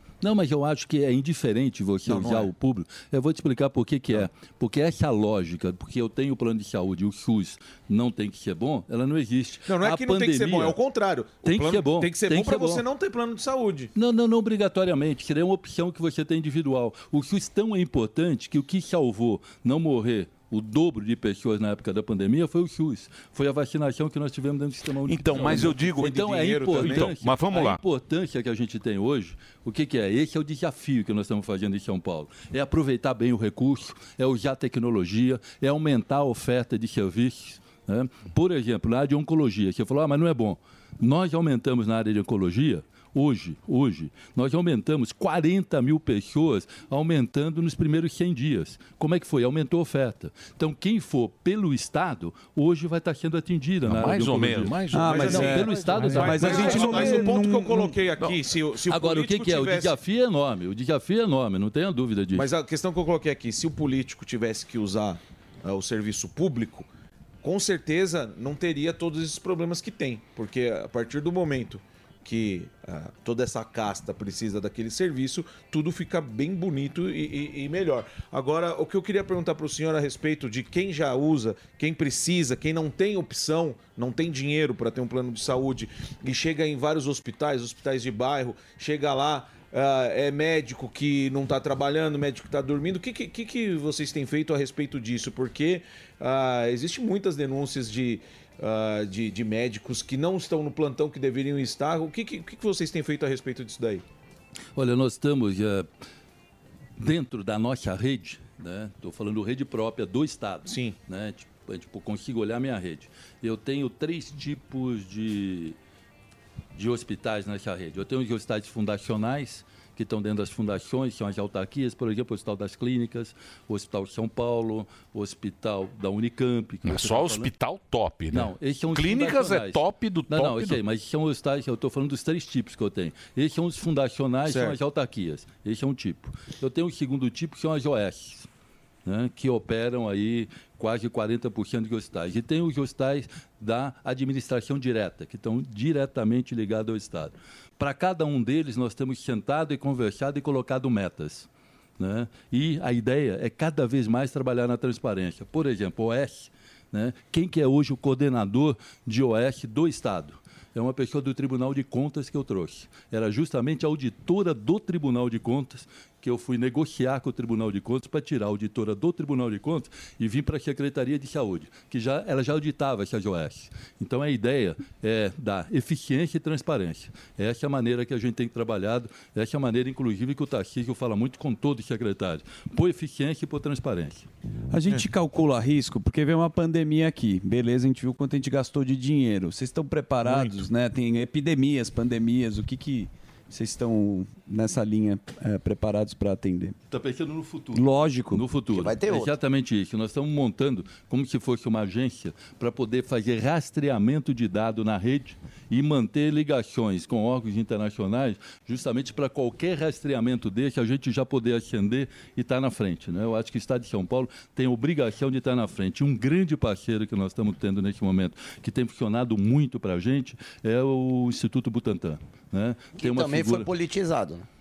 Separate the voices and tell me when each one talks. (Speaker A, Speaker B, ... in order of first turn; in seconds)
Speaker A: 0.2-10.8, 11.4-12.8, 13.9-57.3, 58.9-62.5, 104.8-105.9, 107.0-115.8, 116.8-127.5, 128.3-138.5, 139.1-151.5, 152.0-184.3, 196.9-223.7
Speaker B: 2.0-2.5, 9.7-13.9, 25.3-27.2, 55.0-60.0, 62.3-66.9, 67.4-104.0, 110.7-111.0, 134.4-134.8
Speaker C: 25.1-26.2, 26.8-27.8, 53.9-55.6, 126.8-130.8
Speaker D: 54.9-58.0, 184.7-196.8, 197.8-198.4
Speaker E: 198.7-199.3, 223.0-224.4